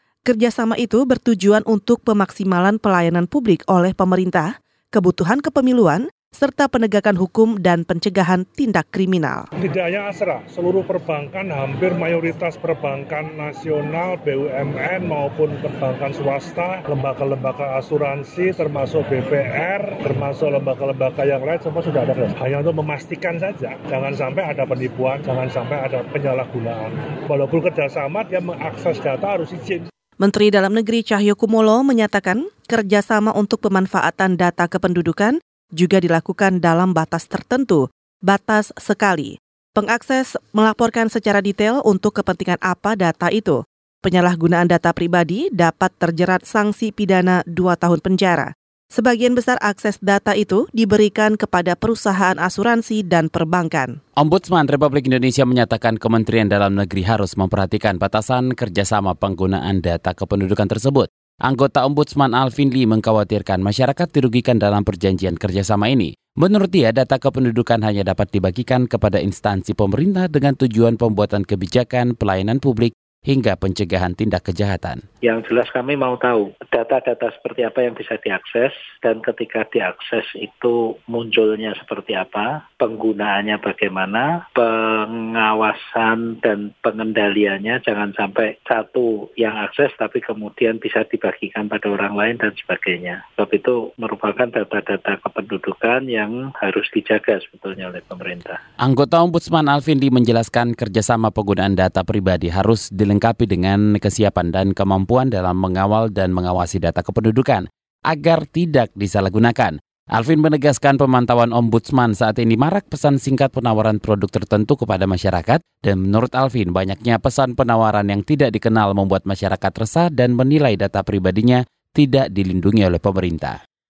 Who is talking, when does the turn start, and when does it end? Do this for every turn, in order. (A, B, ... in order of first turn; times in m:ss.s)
0:00.3-0:09.5 A
0:09.6-0:29.9 B
0:30.2-0:54.0 A
0:54.2-1:15.0 C
1:15.2-1:38.6 D
1:38.8-2:03.6 C